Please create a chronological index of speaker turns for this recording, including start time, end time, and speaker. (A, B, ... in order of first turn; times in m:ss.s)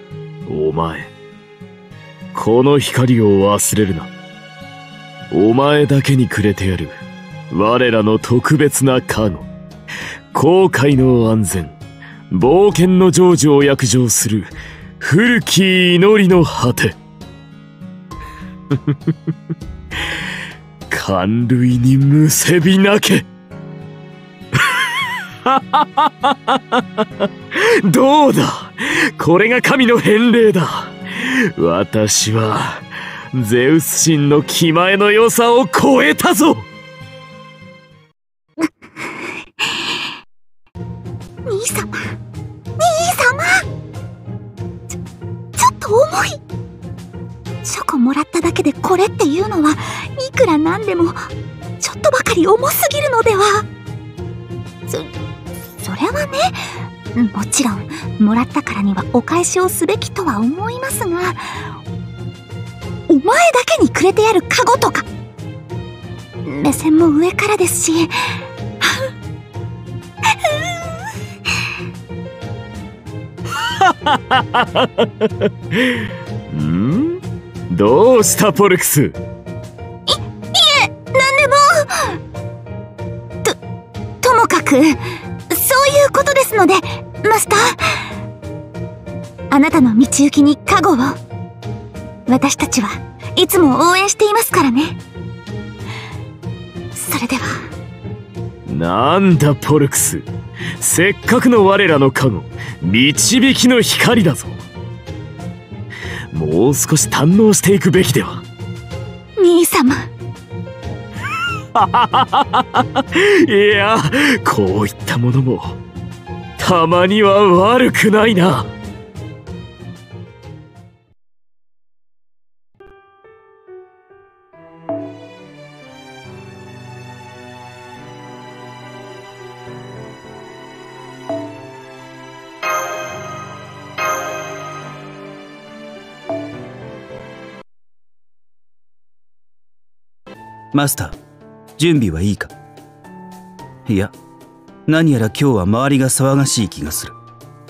0:00.4-0:01.1 A
0:02.3-0:04.1 A
0:05.3-0:06.9 A
0:07.5-0:09.5 A
0:10.3-0:11.8 A
0:12.3-0:16.9 A
0:20.9-0:23.2 A
0:25.4-0:36.6 A
0:38.6-0:39.9 B
0:41.5-0:42.1 B
0:42.8-0:43.6 B
0:45.6-0:46.4 B
0:47.6-0:51.2 B
0:51.8-0:53.6 B
0:55.8-1:01.6 B
1:03.1-1:05.0 B
1:06.4-1:08.1 B
1:10.3-1:10.8 B
1:13.8-1:19.2 A
1:20.1-1:22.1 B
1:24.2-1:27.8 B
1:29.5-1:31.2 B
1:32.3-1:35.0 B
1:36.9-1:37.7 B
1:38.6-1:44.6 A
1:46.3-1:48.4 A
1:49.4-1:50.1 B
1:51.7-1:55.8 A
1:56.6-1:58.7 A
2:20.7-2:21.2 C
2:21.8-2:22.5 C
2:23.8-2:24.1 C
2:24.9-2:27.2 C